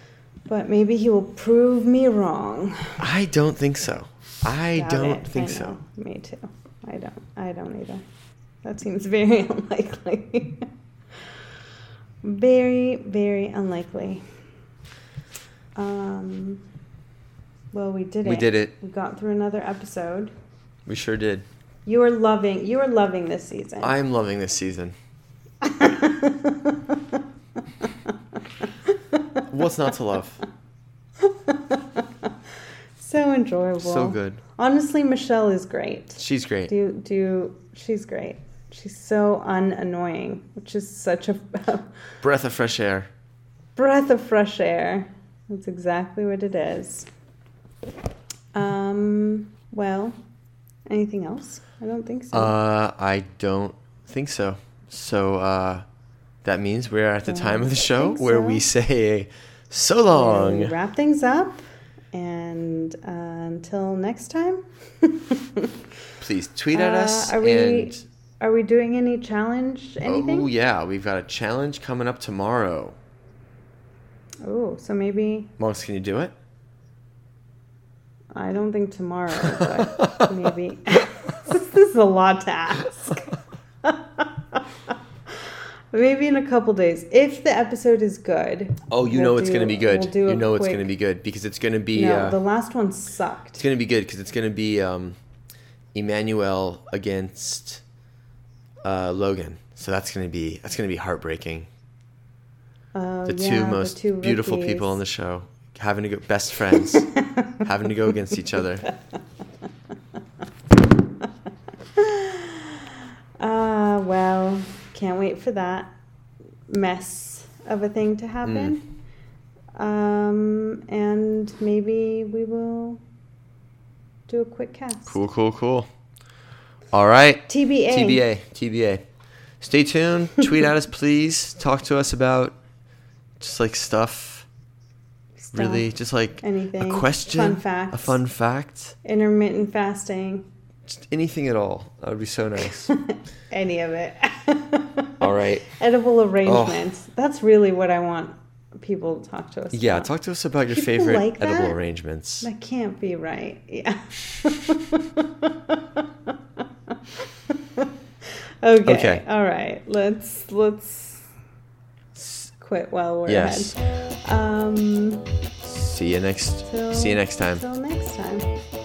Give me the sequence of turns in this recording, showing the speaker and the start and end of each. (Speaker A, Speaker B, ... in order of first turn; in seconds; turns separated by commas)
Speaker A: 0.5-3.0, Speaker B: 3.0-5.8, Speaker A: 4.7-8.0, Speaker A: 8.6-10.7, Speaker A: 12.2-14.2, Speaker A: 15.7-16.6, Speaker A: 17.7-20.3, Speaker B: 18.2-18.7, Speaker B: 20.9-21.4, Speaker A: 21.8-23.9, Speaker B: 23.8-24.9, Speaker A: 25.6-27.2, Speaker A: 27.8-28.1, Speaker A: 28.9-29.4, Speaker B: 29.4-30.4, Speaker A: 31.2-32.3, Speaker A: 33.0-41.9, Speaker B: 33.8-34.4, Speaker B: 36.2-36.7, Speaker B: 42.2-43.1, Speaker A: 43.8-47.1, Speaker A: 48.5-50.2, Speaker A: 50.9-52.5, Speaker B: 52.3-55.8, Speaker B: 56.4-60.7, Speaker A: 57.2-58.6, Speaker A: 60.1-65.8, Speaker B: 66.2-68.0, Speaker A: 66.7-70.5, Speaker B: 70.0-73.0, Speaker A: 74.4-75.5, Speaker B: 75.6-76.3, Speaker A: 78.3-90.9, Speaker B: 79.4-80.3, Speaker B: 88.9-92.4, Speaker A: 91.9-93.6, Speaker B: 93.6-95.2, Speaker B: 95.9-97.8, Speaker B: 98.8-101.7, Speaker A: 102.9-105.0, Speaker B: 103.2-107.1, Speaker A: 106.7-107.6, Speaker B: 107.6-108.9, Speaker A: 111.9-115.9, Speaker A: 116.7-118.8, Speaker B: 118.4-118.8, Speaker A: 119.7-123.0, Speaker A: 124.3-125.2, Speaker B: 125.1-125.9, Speaker B: 126.9-129.0, Speaker A: 127.5-128.2, Speaker B: 129.6-132.6, Speaker B: 133.4-134.5, Speaker A: 135.4-135.9, Speaker B: 135.5-138.9, Speaker A: 136.4-138.2, Speaker A: 139.0-140.5, Speaker B: 140.9-142.9, Speaker A: 142.9-150.1, Speaker B: 145.2-145.7, Speaker B: 146.4-146.9, Speaker B: 149.7-152.5, Speaker A: 150.7-151.8, Speaker A: 152.4-157.9, Speaker A: 158.6-161.3, Speaker B: 158.8-159.2, Speaker B: 162.2-162.5, Speaker A: 162.6-165.3, Speaker B: 163.2-163.7, Speaker B: 165.6-167.6, Speaker A: 166.6-168.5